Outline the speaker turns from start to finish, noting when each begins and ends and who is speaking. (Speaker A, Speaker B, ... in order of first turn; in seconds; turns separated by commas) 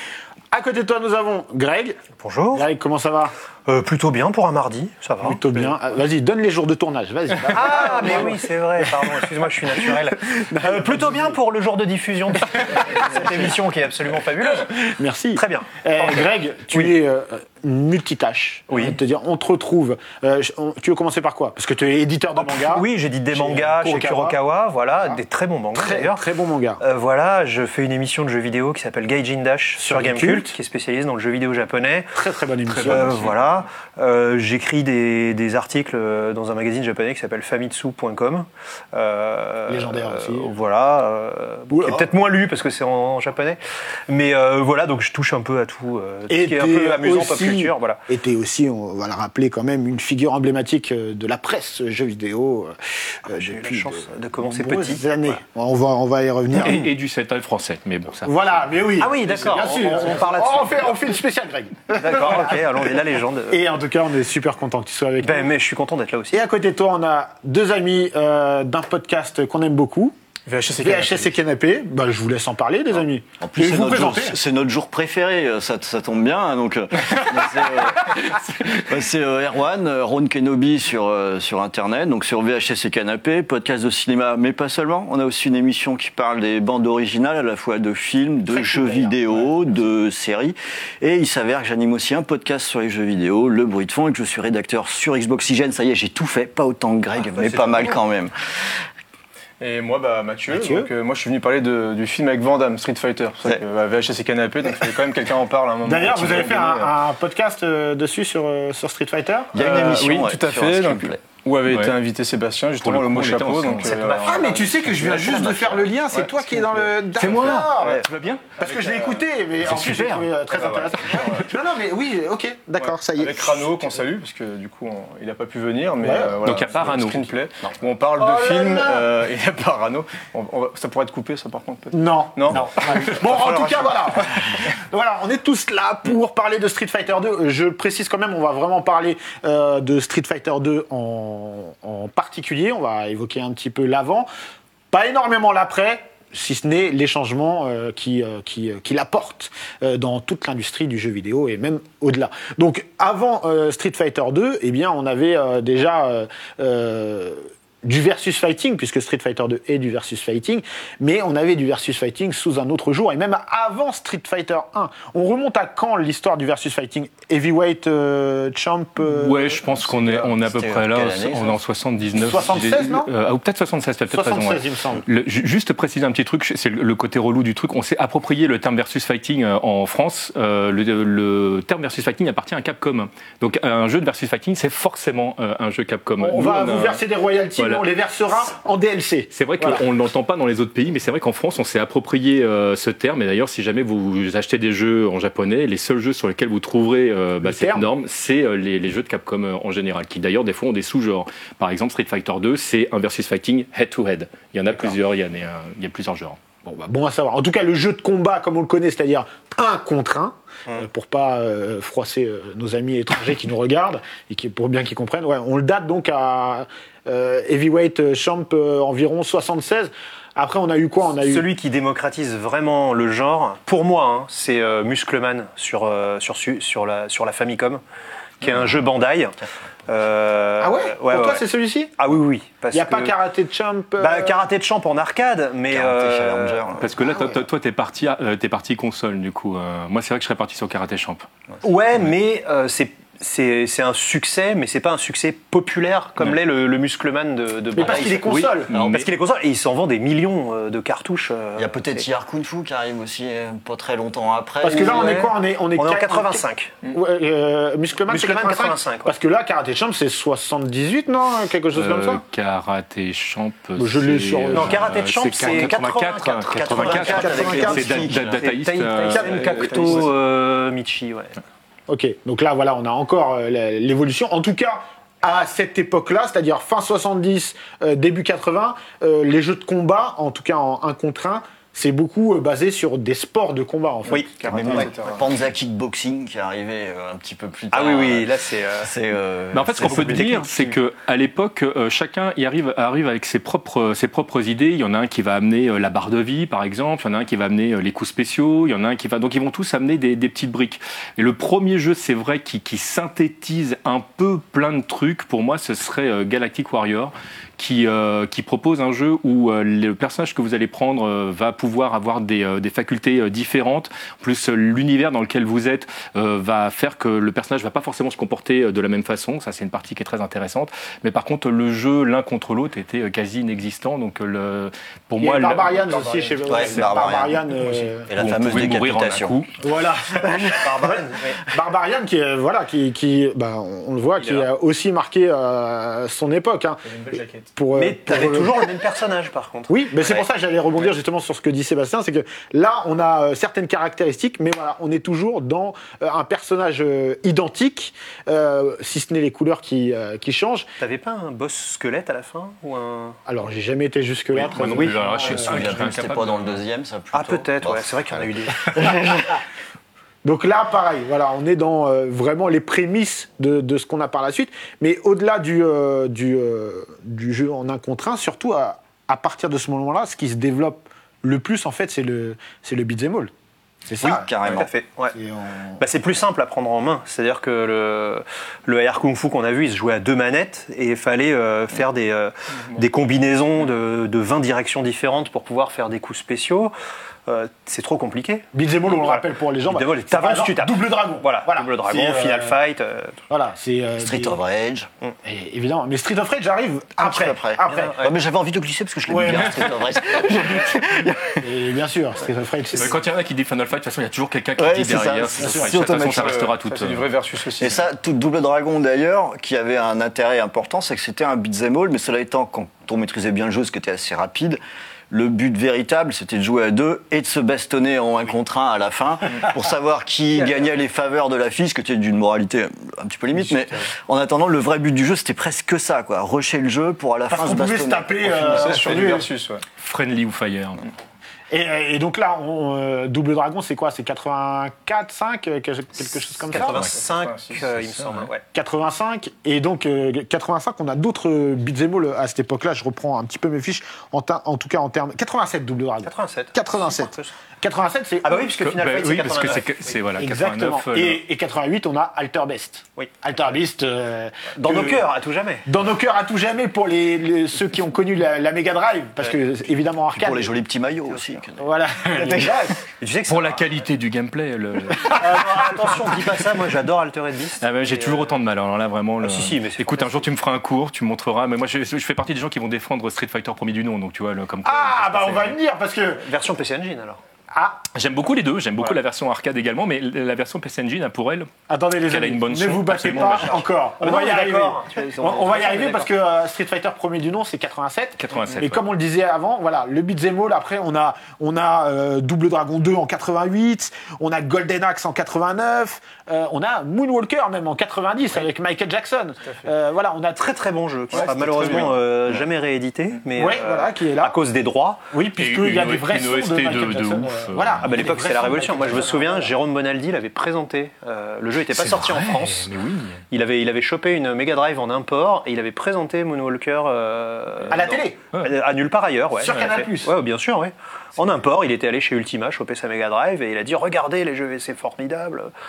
Speaker A: 0.5-2.0, Speaker B: 2.2-2.7, Speaker A: 2.5-3.3, Speaker B: 3.7-5.7, Speaker A: 5.2-9.1, Speaker B: 7.5-16.2, Speaker A: 9.9-11.4, Speaker A: 14.7-24.4, Speaker B: 18.7-18.9, Speaker B: 22.4-26.3, Speaker A: 25.8-26.8, Speaker B: 26.8-32.2, Speaker A: 29.8-30.6, Speaker A: 32.1-33.3, Speaker C: 32.7-33.3, Speaker B: 32.8-48.0, Speaker A: 39.7-40.6, Speaker A: 41.7-42.1, Speaker A: 46.3-56.9, Speaker B: 53.4-55.4, Speaker C: 56.6-58.6, Speaker A: 58.2-62.9, Speaker B: 59.0-61.0, Speaker B: 61.9-63.6, Speaker A: 63.5-65.5, Speaker B: 65.2-66.4, Speaker A: 66.3-70.2, Speaker D: 70.5-71.3, Speaker A: 70.8-74.4, Speaker E: 73.4-98.3, Speaker A: 88.5-89.4, Speaker B: 97.2-98.0, Speaker D: 99.6-106.9, Speaker A: 100.5-100.9, Speaker A: 105.8-109.6, Speaker E: 109.5-111.2, Speaker D: 109.6-115.4, Speaker C: 111.7-111.9, Speaker C: 112.8-114.0, Speaker B: 113.9-114.5, Speaker A: 114.2-118.0, Speaker E: 115.0-115.9, Speaker D: 116.1-116.9, Speaker C: 117.2-118.5, Speaker D: 117.6-118.0, Speaker A: 118.6-123.8, Speaker D: 118.6-119.2, Speaker C: 119.6-120.3, Speaker D: 120.5-121.5, Speaker D: 122.8-133.9, Speaker A: 126.0-126.4, Speaker C: 126.4-127.2, Speaker A: 128.2-129.1, Speaker A: 131.9-144.3, Speaker A: 144.9-169.7, Speaker C: 169.0-187.0, Speaker E: 170.3-171.6, Speaker A: 172.1-173.1, Speaker A: 174.1-175.1, Speaker A: 186.2-189.8, Speaker C: 187.6-187.8, Speaker C: 189.3-206.4, Speaker A: 197.4-197.9, Speaker A: 206.6-221.5, Speaker B: 221.2-227.8, Speaker B: 228.4-229.3, Speaker B: 229.9-231.4, Speaker A: 230.6-231.9, Speaker B: 232.0-233.2, Speaker A: 232.7-234.4, Speaker B: 234.0-236.7, Speaker E: 235.7-236.9, Speaker C: 236.8-241.3, Speaker A: 237.1-237.4, Speaker B: 241.6-252.1, Speaker A: 247.7-248.8, Speaker E: 247.8-249.1, Speaker E: 251.6-255.3, Speaker A: 254.6-262.2, Speaker B: 254.6-256.7, Speaker B: 258.1-259.1, Speaker C: 261.7-270.1, Speaker A: 263.8-264.9, Speaker B: 264.5-271.4, Speaker E: 266.5-268.4, Speaker A: 266.9-268.1, Speaker D: 268.9-270.1, Speaker A: 271.9-284.9, Speaker D: 284.3-285.4, Speaker E: 284.4-290.3, Speaker B: 287.7-288.9, Speaker C: 289.5-325.9, Speaker B: 289.8-290.4, Speaker D: 290.1-290.6, Speaker A: 325.2-328.1, Speaker C: 326.5-327.1, Speaker E: 326.5-327.4, Speaker C: 327.6-329.5, Speaker E: 328.1-329.4, Speaker A: 329.6-338.7, Speaker B: 330.3-331.4, Speaker B: 334.2-334.5, Speaker D: 336.9-337.5, Speaker B: 337.8-339.7, Speaker A: 339.7-350.7, Speaker B: 350.8-353.2, Speaker A: 353.3-355.8, Speaker C: 354.3-356.6, Speaker B: 354.6-355.0, Speaker E: 355.2-359.0, Speaker B: 357.1-359.0, Speaker A: 358.9-359.3, Speaker A: 360.2-373.3, Speaker A: 373.9-374.3, Speaker E: 374.0-374.7, Speaker B: 374.1-375.2, Speaker A: 375.1-375.8, Speaker B: 375.8-386.7, Speaker B: 387.3-393.2, Speaker A: 388.5-392.6, Speaker A: 393.3-394.4, Speaker E: 394.0-394.9, Speaker A: 395.2-398.0, Speaker E: 397.0-401.5, Speaker B: 397.7-398.2, Speaker A: 399.1-399.7, Speaker A: 401.4-403.0, Speaker C: 402.7-407.1, Speaker E: 404.6-406.4, Speaker A: 405.4-405.8, Speaker D: 406.1-407.8, Speaker E: 407.6-428.8, Speaker A: 427.3-429.3, Speaker D: 428.3-429.6, Speaker C: 429.8-430.9, Speaker A: 431.5-436.9, Speaker B: 436.5-438.4, Speaker D: 436.8-438.3, Speaker A: 438.5-448.5, Speaker B: 446.0-447.3, Speaker B: 448.2-449.9, Speaker C: 448.6-451.2, Speaker A: 450.2-455.1, Speaker B: 454.5-455.7, Speaker A: 455.7-460.5, Speaker E: 460.1-461.6, Speaker B: 461.1-461.4, Speaker A: 461.6-462.8, Speaker B: 462.2-463.6, Speaker C: 463.3-465.6, Speaker B: 465.1-468.3, Speaker C: 467.6-475.6, Speaker B: 469.2-470.3, Speaker A: 474.6-476.3, Speaker B: 476.2-477.2, Speaker A: 477.5-477.8, Speaker C: 477.9-481.5, Speaker A: 481.7-500.6, Speaker C: 482.1-483.6, Speaker B: 484.0-486.1, Speaker C: 488.2-488.9, Speaker B: 500.4-505.0, Speaker D: 501.2-501.9, Speaker A: 501.3-501.9, Speaker A: 503.4-504.4, Speaker A: 505.1-509.5, Speaker C: 505.4-508.0, Speaker B: 507.8-512.7, Speaker C: 511.8-513.2, Speaker B: 513.3-525.5, Speaker A: 517.7-518.2, Speaker A: 519.4-520.1